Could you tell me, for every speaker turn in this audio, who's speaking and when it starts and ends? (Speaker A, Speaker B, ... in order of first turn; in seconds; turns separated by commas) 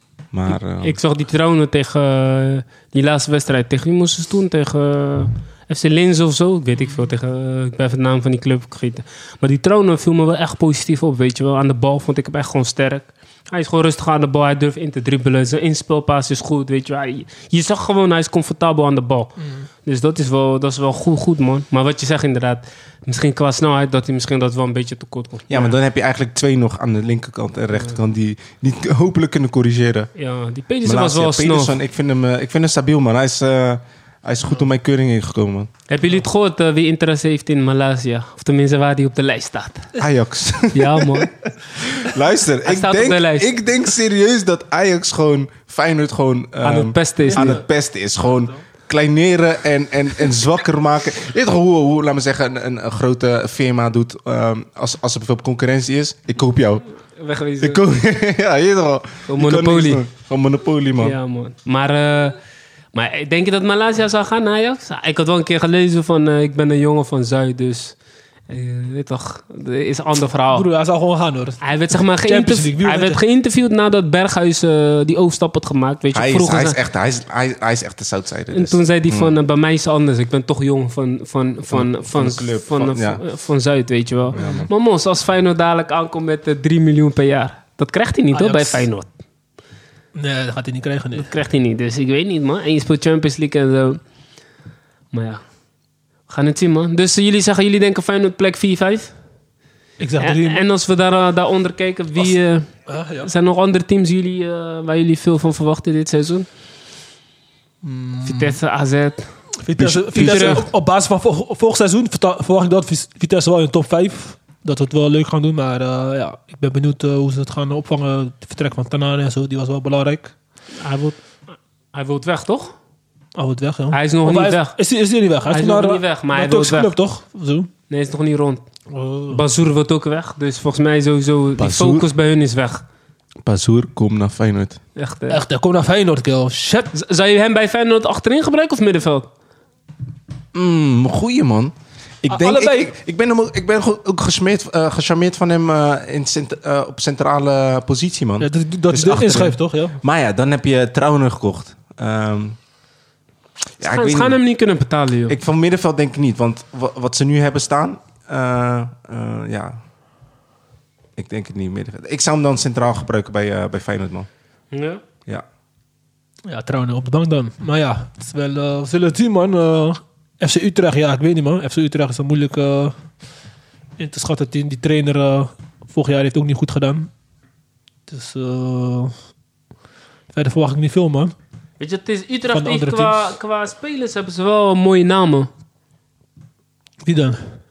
Speaker A: 0.3-1.0, Speaker B: 0.5-25.8, Speaker A: 25.5-30.1, Speaker B: 30.2-31.8, Speaker A: 30.8-35.7, Speaker B: 35.9-39.9, Speaker A: 40.0-56.9, Speaker B: 40.7-41.3, Speaker B: 42.6-43.5, Speaker B: 46.6-47.6, Speaker C: 47.3-47.6, Speaker B: 57.2-57.8, Speaker A: 57.6-61.2, Speaker B: 59.3-60.0, Speaker B: 61.0-62.4, Speaker B: 62.9-68.0, Speaker B: 68.5-70.7, Speaker C: 70.5-73.2, Speaker B: 71.6-76.8, Speaker A: 76.1-79.3, Speaker B: 78.5-89.1, Speaker A: 81.7-83.2, Speaker A: 84.3-84.7, Speaker C: 88.3-88.9, Speaker C: 90.2-91.3, Speaker B: 91.2-94.0, Speaker B: 95.1-95.4, Speaker B: 96.3-99.1, Speaker C: 100.0-100.6, Speaker B: 100.2-106.5, Speaker C: 102.9-103.3, Speaker C: 107.8-108.6, Speaker B: 108.3-109.3, Speaker C: 109.6-120.3, Speaker A: 109.8-110.6, Speaker B: 110.1-110.6, Speaker B: 120.8-121.2, Speaker B: 121.9-122.7, Speaker C: 123.4-127.7, Speaker B: 123.9-124.8, Speaker B: 125.5-126.9, Speaker B: 127.9-128.7, Speaker C: 128.9-129.4, Speaker B: 129.3-132.8, Speaker A: 131.6-132.1, Speaker A: 133.4-134.8, Speaker B: 135.0-135.4, Speaker C: 135.3-136.9, Speaker B: 136.9-139.3, Speaker A: 140.5-152.6, Speaker C: 142.3-142.9, Speaker C: 148.4-150.0, Speaker A: 153.8-154.4, Speaker B: 153.8-155.4, Speaker A: 155.3-159.8, Speaker A: 161.2-164.3, Speaker B: 164.7-165.0, Speaker C: 166.5-173.0, Speaker C: 174.0-177.1, Speaker C: 178.1-179.1, Speaker C: 180.3-181.3, Speaker B: 181.8-185.5, Speaker C: 182.5-183.2, Speaker C: 187.1-187.6